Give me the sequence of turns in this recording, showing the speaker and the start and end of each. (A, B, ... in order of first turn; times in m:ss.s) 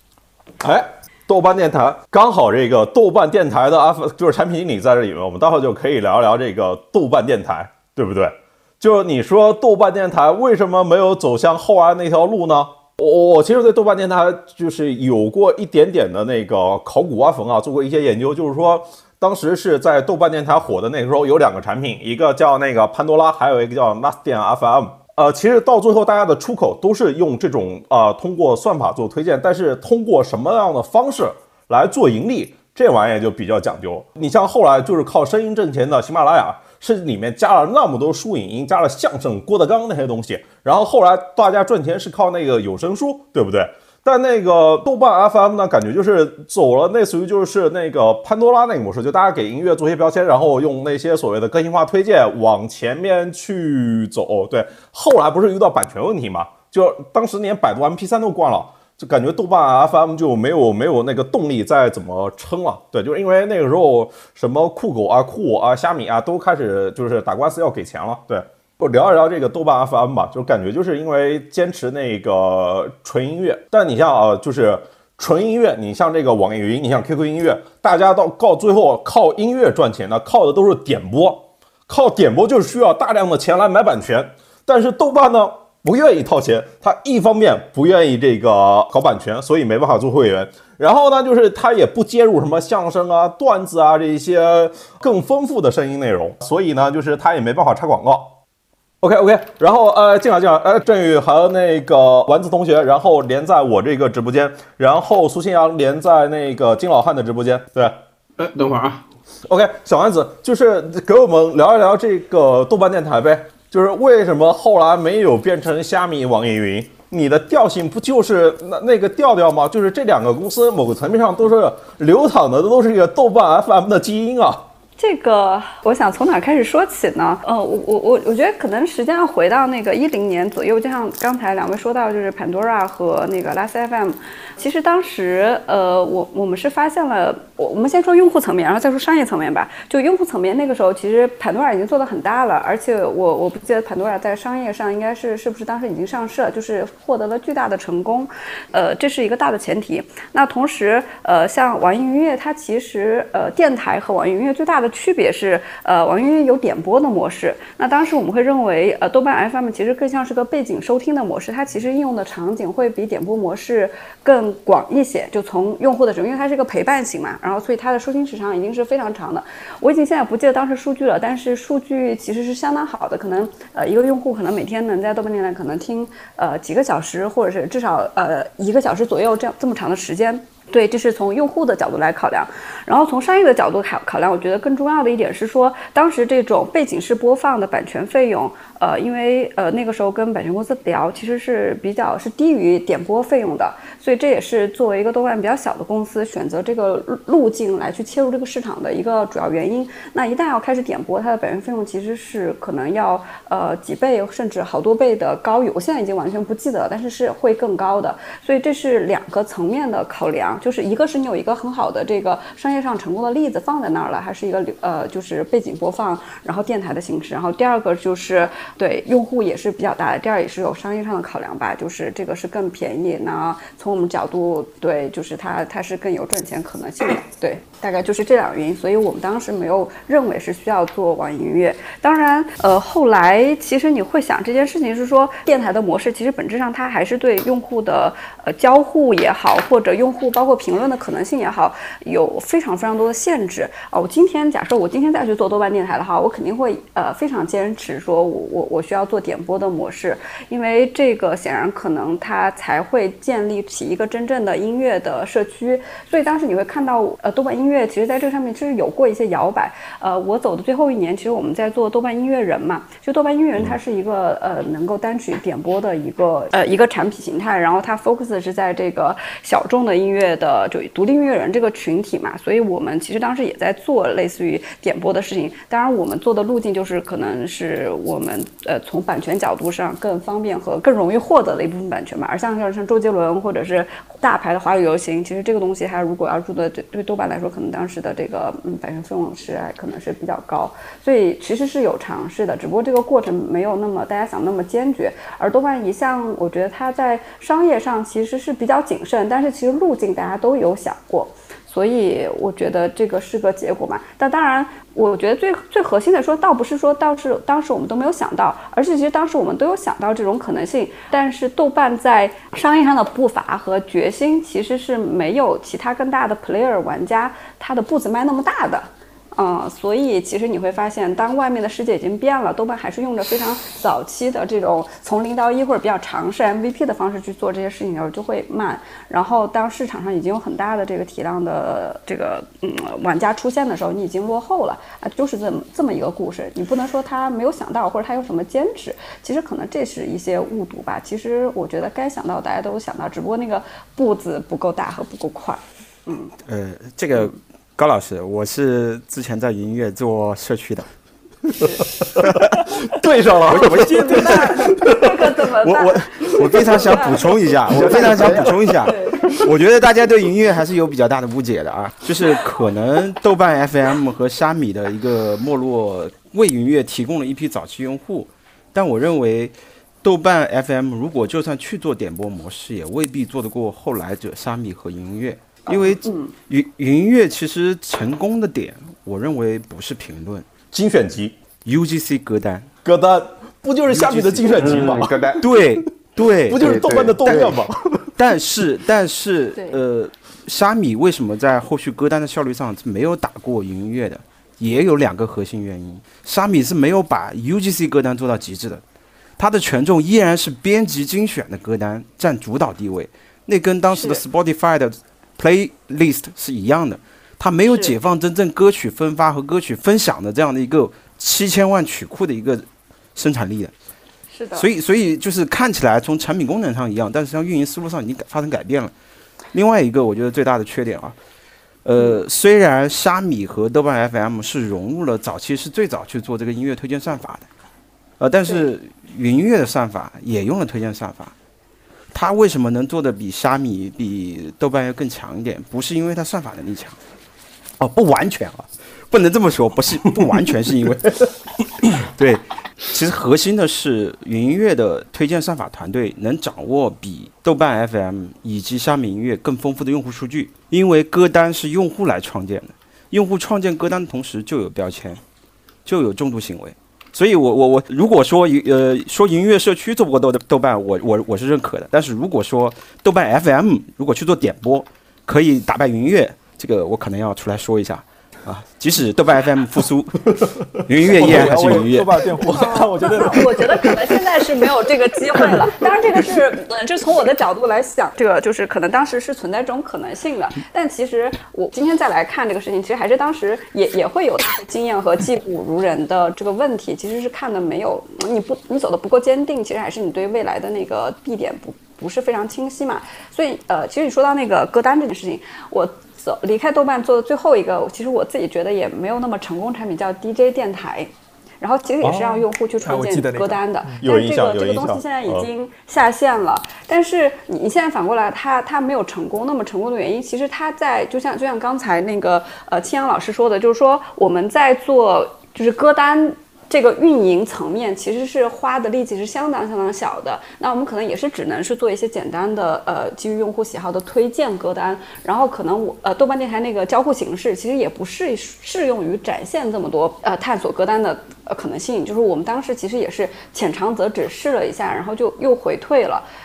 0:00.6-1:38.4 A
1:39.0-1:48.0 A
1:48.4-1:49.0 B
1:49.5-2:04.6 A
2:05.0-5:46.3 C
5:46.4-5:50.9 D
5:52.2-5:56.8 A
5:53.5-5:57.3 C
5:53.5-5:54.2 D
5:53.8-5:54.3 E
5:56.4-6:20.5 D
5:57.7-5:58.7 B
5:58.3-5:58.5 A
5:58.8-5:59.2 C
6:15.7-6:16.3 C
6:20.7-6:21.4 A
6:21.6-6:22.7 D
6:22.8-6:25.6 A
6:24.1-6:25.5 B
6:24.2-6:27.6 D
6:26.5-6:28.0 A
6:26.6-6:27.6 B
6:28.2-6:38.8 D
6:39.4-6:53.7 D
6:54.3-6:54.7 C
6:54.6-6:58.9 D
6:59.5-7:01.2 D
7:01.8-7:07.5 D
7:08.2-7:11.3 D
7:12.1-7:17.0 D
7:17.8-7:21.3 D
7:21.9-7:35.2 D
7:35.8-7:52.2 D
7:51.0-7:53.8 E
7:52.4-8:56.3 C
8:22.1-8:24.0 E
8:24.0-8:25.5 A